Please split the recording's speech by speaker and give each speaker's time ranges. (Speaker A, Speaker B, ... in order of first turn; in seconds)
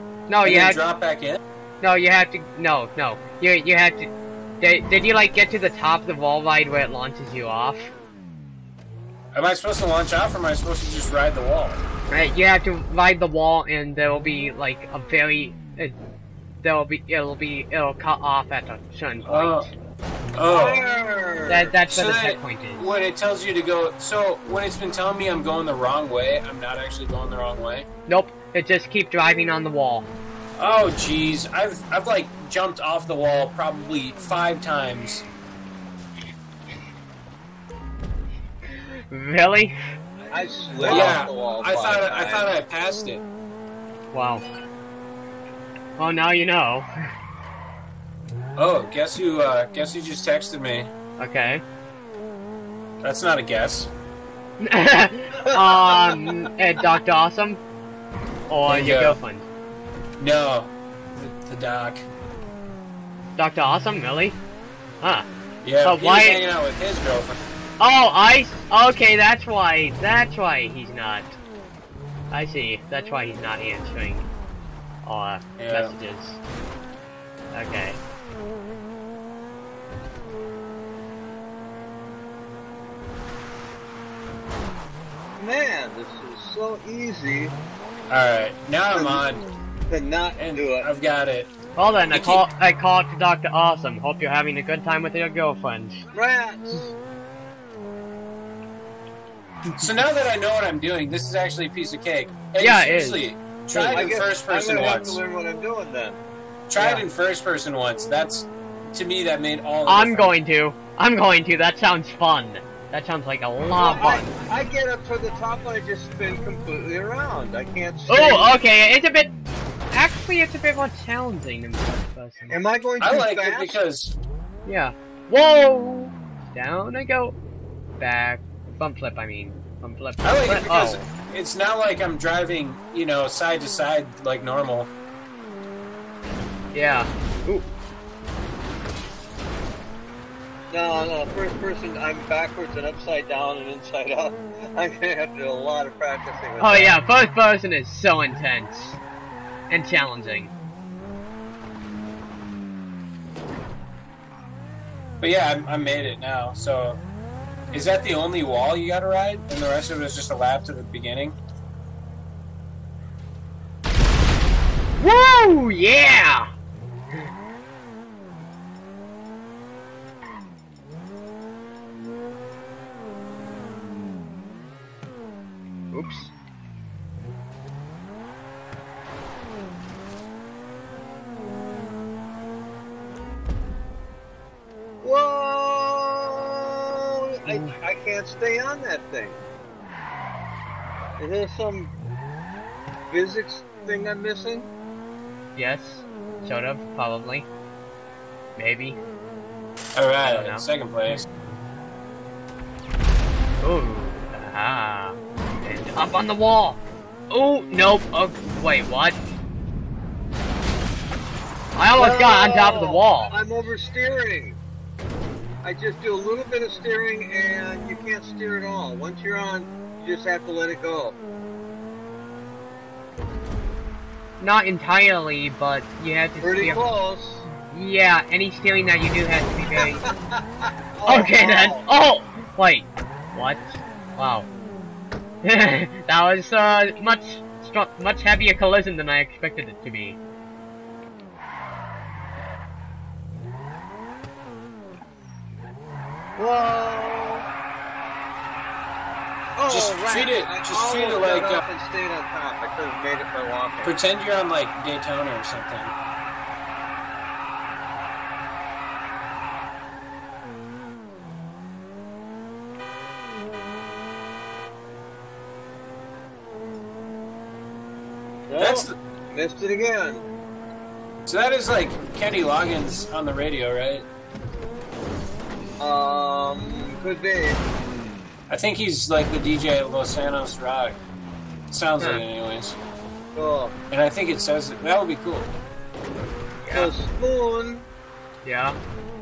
Speaker A: 0.3-0.8, 1.8-7.9, 12.1-16.0, 16.6-19.7, 21.5-22.9, 28.1-30.1, 38.7-39.8, 40.8-41.2, 44.1-44.5, 46.0-46.9, 51.2-51.6, 54.6-57.6, 58.5-59.5, 63.4-64.4, 65.8-66.4, 67.8-71.4, 72.3-74.3, 75.1-76.4, 77.5-78.0, 91.8-96.0, 102.6-103.3, 106.8-107.0, 109.9-114.3, 118.1-119.3, 119.9-122.6, 124.7-127.4, 128.0-131.0, 136.7-137.7, 146.6-149.0, 149.7-150.5, 165.0-166.5, 175.9-176.3, 187.5-187.8, 195.6-197.5, 198.6-199.0, 200.2-200.7, 203.6-209.2, 211.8-213.3, 224.4-226.9, 227.6-230.1, 231.1-234.5, 235.4-240.2, 286.6-286.9, 288.4-288.8
Speaker B: 0.4-1.4, 9.3-11.8, 19.3-19.7, 20.3-20.8, 21.9-27.9, 30.6-35.2, 40.9-43.2, 48.6-50.9, 53.0-53.9, 58.7-59.2, 60.2-62.1, 65.6-67.4, 75.6-76.0, 88.1-89.5, 90.4-91.5, 92.1-92.5, 99.8-105.2, 106.7-110.3, 123.0-124.2, 130.2-134.9, 155.2-157.0, 157.7-161.4, 200.0-201.3, 249.7-251.6, 253.8-255.9, 268.6-268.9, 271.3-274.1, 278.5-281.0, 281.7-282.8, 283.9-285.5
Speaker C: 20.5-21.8, 40.3-42.5, 55.4-56.4, 85.4-87.6, 88.9-89.2, 89.9-90.9, 96.1-96.9, 103.7-106.2, 113.8-118.6, 122.5-123.8, 140.7-147.0, 185.0-189.4, 191.2-191.9, 193.1-194.7, 211.9-214.6, 215.6-221.2, 226.4-227.5, 229.8-231.9, 246.4-247.5, 249.6-253.9, 268.5-270.3, 275.8-277.6, 283.4-283.8, 286.7-287.9